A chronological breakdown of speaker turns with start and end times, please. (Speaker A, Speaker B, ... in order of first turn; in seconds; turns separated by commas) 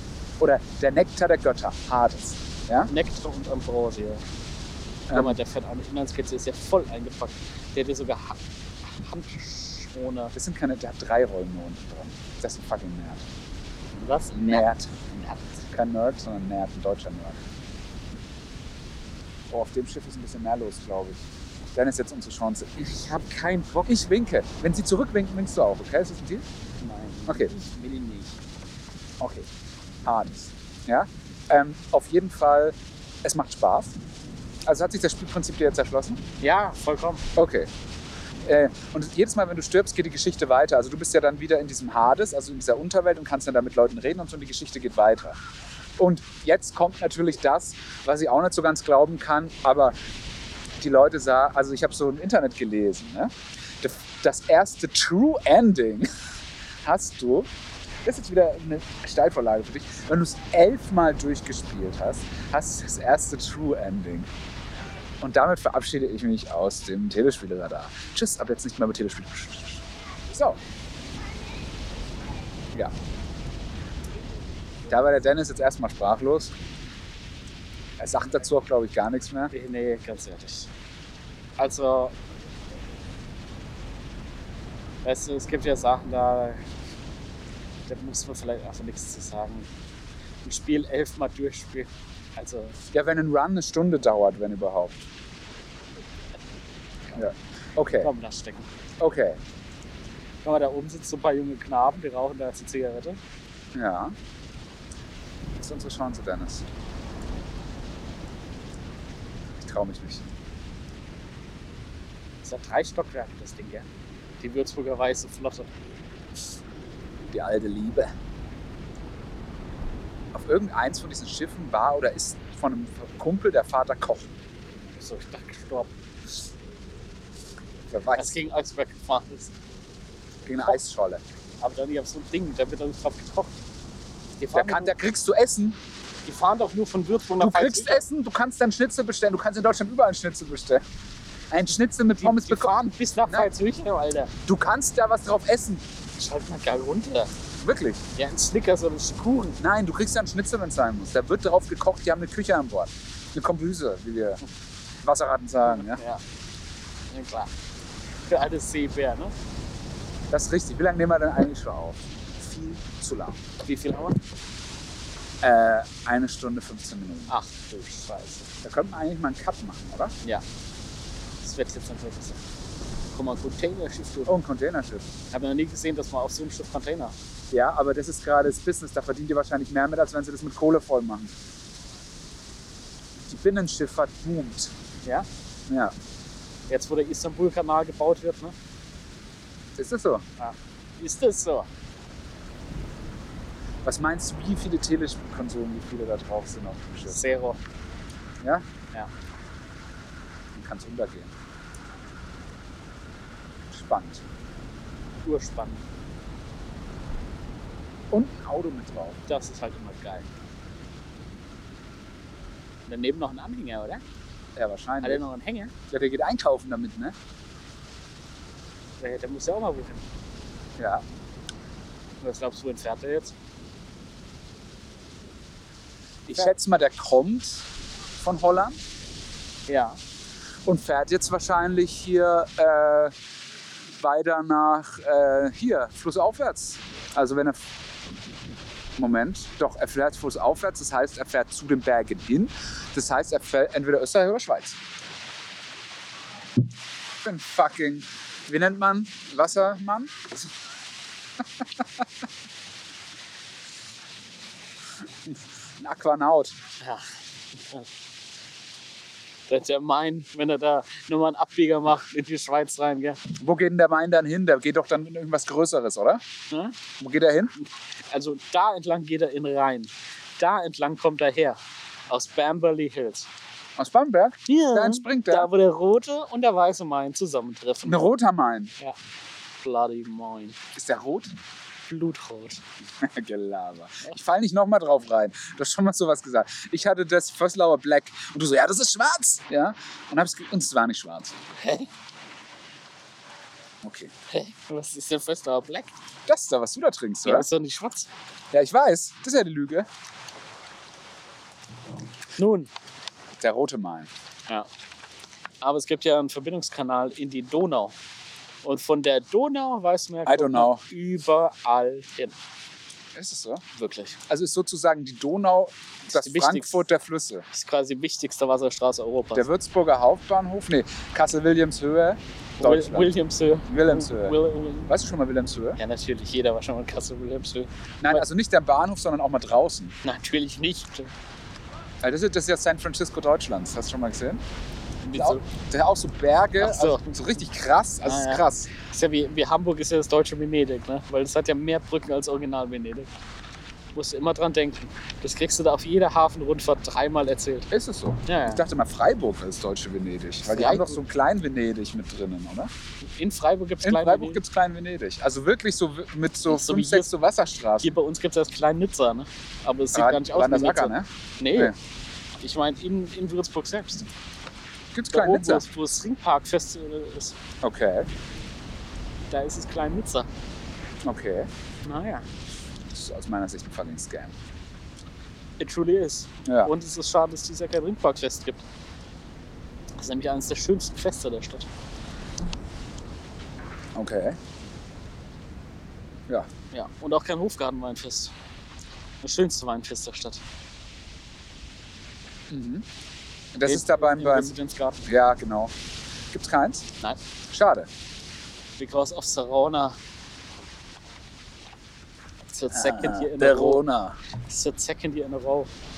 Speaker A: 0.4-2.9, Speaker B: 2.9-4.2, Speaker A: 5.1-5.4, Speaker B: 5.1-10.3, Speaker A: 10.3-13.3, Speaker B: 14.0-15.6, Speaker A: 14.3-14.9, Speaker A: 15.7-17.5, Speaker A: 19.5-22.9, Speaker B: 22.8-24.1, Speaker A: 23.9-26.4, Speaker B: 26.8-28.4, Speaker A: 29.2-29.5, Speaker A: 30.1-33.9, Speaker A: 34.6-36.2, Speaker B: 36.4-37.2, Speaker A: 37.4-37.7, Speaker A: 38.4-45.4, Speaker A: 46.0-49.9, Speaker A: 50.8-56.1, Speaker A: 56.8-57.5, Speaker A: 58.0-64.3, Speaker A: 65.2-70.6, Speaker A: 74.9-76.5, Speaker A: 78.0-79.5, Speaker B: 79.5-80.7, Speaker B: 81.6-82.1, Speaker B: 85.0-86.6, Speaker B: 87.9-89.7, Speaker B: 90.4-92.8, Speaker A: 92.9-95.1, Speaker A: 97.1-98.1, Speaker B: 98.0-98.7, Speaker A: 99.0-99.4, Speaker B: 100.4-103.2, Speaker A: 103.7-104.1, Speaker A: 105.6-106.7, Speaker A: 109.6-110.3, Speaker B: 112.4-113.9, Speaker B: 114.4-115.7, Speaker A: 117.3-118.1, Speaker A: 120.3-124.3, Speaker B: 124.9-125.9, Speaker A: 127.9-128.4, Speaker B: 128.1-129.5, Speaker A: 130.4-131.2, Speaker B: 131.6-133.6, Speaker B: 134.4-134.9, Speaker A: 134.5-135.8, Speaker B: 136.3-138.0, Speaker A: 137.4-140.8, Speaker A: 141.5-143.5, Speaker B: 142.2-144.3, Speaker A: 144.4-145.8, Speaker B: 146.2-147.3, Speaker A: 147.6-148.0, Speaker B: 148.1-149.6, Speaker A: 149.6-154.4, Speaker A: 155.0-156.0, Speaker B: 155.6-156.2, Speaker B: 157.1-157.5, Speaker B: 158.3-159.3, Speaker A: 160.3-163.4, Speaker B: 163.6-164.2, Speaker A: 165.4-167.3, Speaker B: 167.3-168.5, Speaker A: 168.6-170.1, Speaker B: 171.4-172.4, Speaker B: 173.1-174.3, Speaker A: 174.3-175.1, Speaker B: 175.3-177.1, Speaker A: 177.5-181.3, Speaker A: 183.2-184.7, Speaker B: 186.7-188.6, Speaker A: 189.8-190.2, Speaker B: 190.4-191.7, Speaker A: 193.8-197.2, Speaker B: 197.1-197.6, Speaker A: 200.6-201.3, Speaker A: 203.7-204.2, Speaker B: 205.2-205.8, Speaker A: 208.1-209.2, Speaker B: 209.3-210.3, Speaker B: 212.9-214.0, Speaker A: 214.6-215.3, Speaker B: 215.0-215.7, Speaker A: 215.9-217.1, Speaker B: 219.0-220.1, Speaker A: 220.8-221.0, Speaker B: 222.2-223.3, Speaker A: 226.3-227.7, Speaker A: 228.2-228.8, Speaker B: 229.7-230.0, Speaker A: 230.6-233.1, Speaker A: 234.0-237.6, Speaker A: 239.0-244.8, Speaker A: 247.2-250.4, Speaker A: 255.3-256.6, Speaker B: 256.8-257.9, Speaker B: 259.5-263.3, Speaker A: 263.3-266.2, Speaker B: 266.5-266.8, Speaker A: 267.0-267.5, Speaker B: 267.6-271.6, Speaker B: 272.1-273.3, Speaker A: 273.8-275.5, Speaker B: 274.5-278.1, Speaker A: 277.8-278.7, Speaker B: 279.6-280.6, Speaker A: 280.7-281.3, Speaker B: 281.9-282.6, Speaker A: 283.0-291.4, Speaker B: 291.6-291.9, Speaker A: 293.8-294.1, Speaker B: 294.3-295.9, Speaker A: 296.3-297.5, Speaker B: 297.2-298.1, Speaker A: 298.5-299.9, Speaker B: 302.4-302.7, Speaker A: 303.4-304.1, Speaker B: 305.6-307.9, Speaker B: 308.6-312.3, Speaker A: 310.3-310.8, Speaker A: 313.1-313.6, Speaker B: 313.7-314.2, Speaker A: 314.3-317.5, Speaker B: 316.1-316.8, Speaker B: 317.5-319.5, Speaker A: 319.3-323.1, Speaker B: 322.6-325.0, Speaker A: 323.7-324.4, Speaker A: 324.9-325.8, Speaker B: 325.8-328.3, Speaker A: 328.0-329.9, Speaker B: 330.0-331.1, Speaker A: 332.0-334.4, Speaker B: 335.0-335.4, Speaker A: 335.1-338.7, Speaker B: 336.6-337.4, Speaker B: 338.0-343.1, Speaker B: 343.9-347.7, Speaker A: 347.7-352.7, Speaker B: 348.3-348.6, Speaker B: 350.4-351.0, Speaker B: 353.0-354.4, Speaker A: 353.8-357.9, Speaker B: 356.5-357.1, Speaker B: 357.8-361.7, Speaker A: 359.9-361.7, Speaker B: 362.4-364.1, Speaker A: 364.9-365.6, Speaker B: 365.1-367.3, Speaker A: 367.6-368.1, Speaker B: 369.3-370.3, Speaker A: 371.1-371.5, Speaker B: 371.8-372.3, Speaker A: 372.9-374.3, Speaker B: 375.6-378.6, Speaker A: 376.4-376.7, Speaker B: 380.0-381.7, Speaker A: 383.9-384.4, Speaker B: 386.7-388.3, Speaker B: 389.2-390.4, Speaker A: 392.5-392.8, Speaker A: 393.6-395.7, Speaker B: 393.6-395.0, Speaker A: 396.3-396.9, Speaker A: 397.5-397.9, Speaker B: 398.8-400.0, Speaker B: 402.5-403.8, Speaker A: 402.7-404.2, Speaker B: 404.4-405.7